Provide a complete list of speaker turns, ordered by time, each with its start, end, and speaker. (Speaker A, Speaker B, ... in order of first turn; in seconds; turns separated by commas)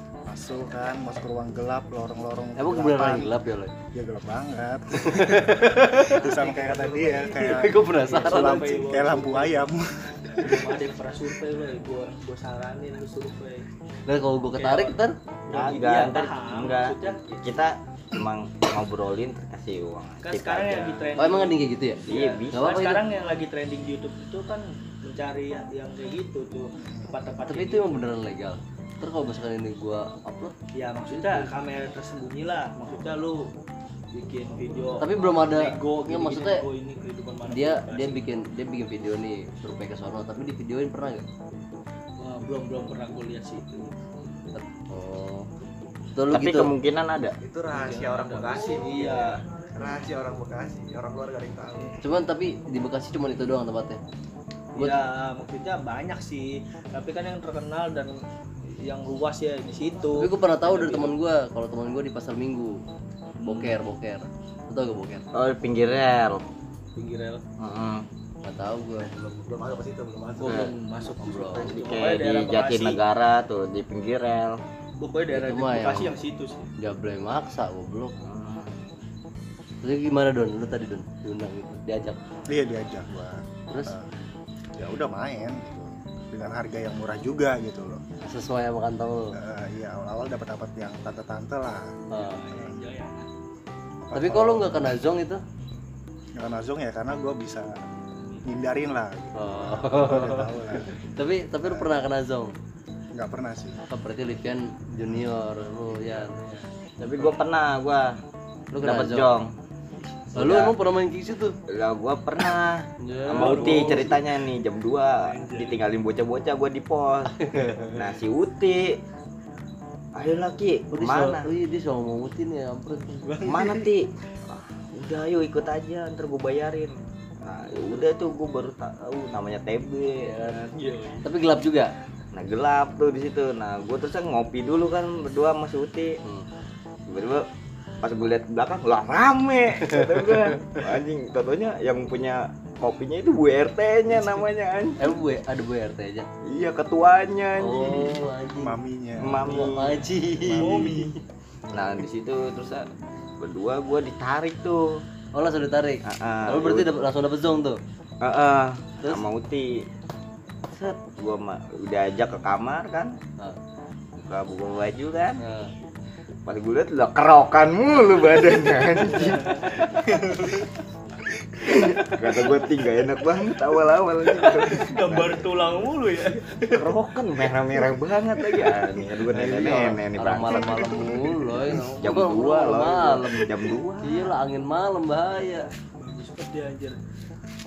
Speaker A: 0.2-3.3, Speaker B: 2.6-3.7, Speaker A: 3.9-10.6, Speaker B: 5.0-6.3, Speaker C: 6.2-9.7, Speaker B: 7.3-8.8, Speaker C: 10.4-13.7, Speaker B: 14.1-15.2, Speaker C: 14.6-17.6, Speaker D: 15.5-21.0, Speaker C: 20.2-28.1, Speaker B: 21.2-23.0, Speaker D: 22.1-22.8, Speaker A: 26.8-27.1, Speaker B: 27.5-30.6, Speaker C: 30.7-33.5, Speaker B: 31.1-31.5, Speaker C: 34.1-38.3, Speaker B: 35.0-36.6, Speaker B: 37.5-41.3, Speaker C: 42.2-44.0, Speaker B: 44.5-45.5, Speaker B: 46.1-46.7, Speaker D: 46.3-47.4, Speaker E: 47.4-52.0, Speaker C: 47.7-49.4, Speaker B: 52.0-54.0, Speaker C: 54.8-61.1, Speaker B: 54.8-55.0, Speaker B: 60.2-62.8, Speaker C: 63.4-63.8, Speaker B: 63.4-65.2, Speaker D: 65.3-66.4, Speaker C: 67.0-67.4, Speaker D: 67.6-68.0, Speaker B: 68.4-69.1, Speaker E: 68.9-70.7, Speaker C: 70.4-73.0, Speaker B: 71.2-71.7, Speaker D: 71.6-74.6, Speaker C: 75.0-76.7, Speaker B: 75.3-76.2, Speaker B: 76.8-78.2, Speaker D: 78.2-78.7, Speaker B: 79.8-82.2, Speaker A: 82.5-84.1, Speaker B: 83.7-84.0, Speaker A: 84.8-88.0, Speaker B: 88.2-89.4, Speaker A: 89.3-91.9, Speaker B: 92.1-92.4, Speaker C: 92.1-93.3, Speaker A: 92.5-92.8, Speaker A: 94.0-94.9, Speaker B: 94.1-95.4, Speaker A: 96.4-97.7, Speaker C: 98.2-98.5, Speaker A: 98.5-101.0, Speaker B: 99.3-102.5, Speaker A: 101.7-101.9, Speaker A: 103.1-103.8, Speaker B: 103.9-106.4, Speaker C: 105.9-106.7, Speaker D: 107.0-108.2, Speaker B: 108.7-109.4, Speaker D: 108.8-109.5, Speaker D: 110.3-110.8, Speaker B: 110.3-111.6, Speaker D: 111.7-119.0, Speaker B: 113.0-114.2, Speaker C: 113.3-114.2, Speaker C: 115.2-115.8, Speaker B: 117.4-118.0, Speaker D: 120.2-121.5, Speaker B: 120.9-123.3, Speaker C: 123.1-123.9, Speaker D: 123.5-130.6, Speaker C: 130.3-131.3, Speaker B: 131.2-131.9, Speaker D: 132.3-136.2, Speaker D: 137.1-137.5, Speaker D: 138.0-145.0, Speaker B: 139.9-140.6, Speaker B: 145.0-146.3, Speaker D: 146.4-148.2, Speaker B: 147.6-151.1, Speaker A: 148.6-151.0, Speaker D: 149.2-150.0, Speaker C: 150.5-151.1, Speaker D: 151.7-152.9, Speaker D: 153.4-155.0, Speaker B: 155.3-157.8, Speaker D: 156.0-156.9, Speaker D: 158.2-159.9, Speaker D: 160.7-163.2, Speaker D: 164.2-165.4, Speaker B: 165.4-165.7, Speaker D: 166.5-169.8, Speaker C: 169.1-170.7, Speaker D: 171.6-175.5, Speaker C: 171.8-172.2, Speaker C: 174.3-176.9, Speaker D: 176.6-181.0, Speaker B: 179.3-185.7, Speaker C: 180.9-181.3, Speaker D: 181.7-184.3, Speaker C: 186.0-187.0